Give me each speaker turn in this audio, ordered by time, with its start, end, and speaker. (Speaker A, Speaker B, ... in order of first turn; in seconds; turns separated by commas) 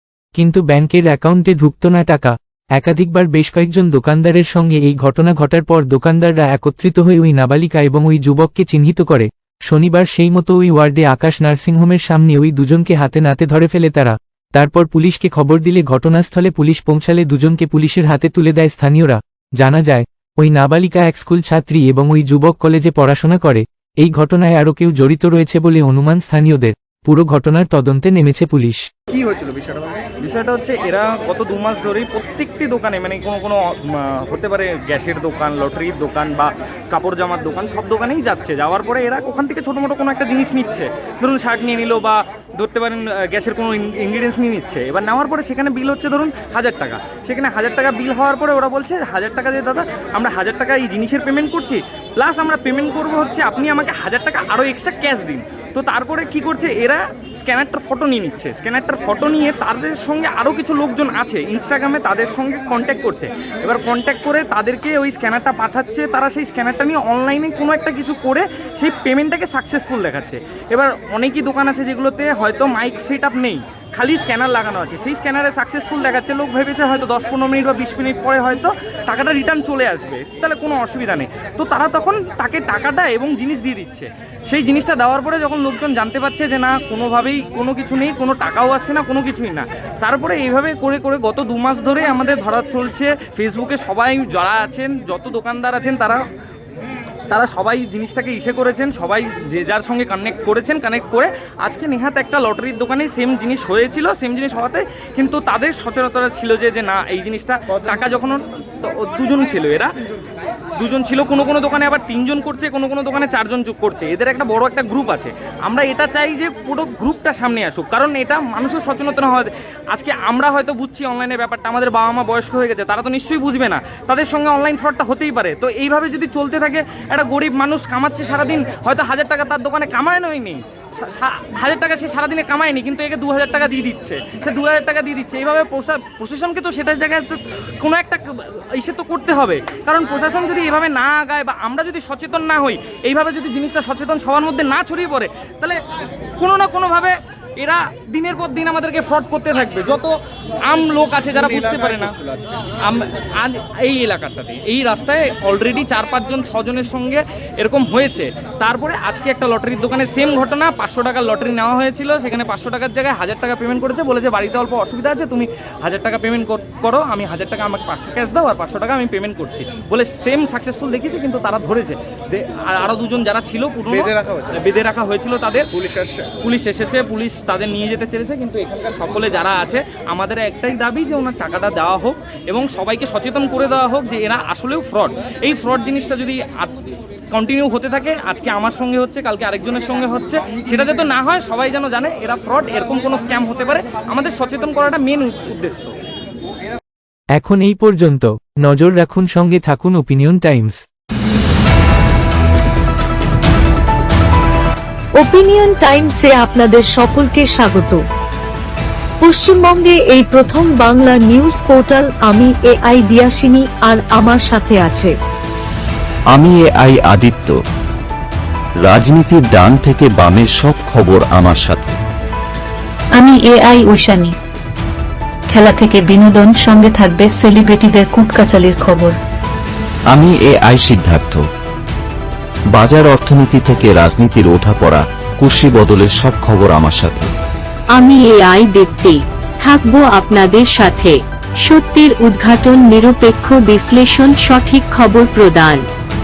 Speaker A: 0.4-28.8, Speaker B: 29.1-30.0, Speaker C: 30.2-96.2, Speaker C: 97.3-109.9, Speaker C: 110.8-145.8, Speaker C: 146.4-150.1, Speaker C: 150.7-152.2, Speaker B: 151.4-152.6, Speaker C: 152.8-175.7, Speaker B: 173.9-174.6, Speaker B: 175.8-176.3, Speaker C: 176.4-186.8, Speaker C: 187.3-195.9, Speaker A: 197.4-200.8, Speaker D: 205.2-208.0, Speaker D: 209.2-215.2, Speaker E: 216.3-217.6, Speaker E: 218.8-222.0, Speaker F: 223.3-224.3, Speaker F: 225.7-229.1, Speaker E: 230.1-231.4, Speaker E: 232.7-237.3, Speaker G: 237.9-245.8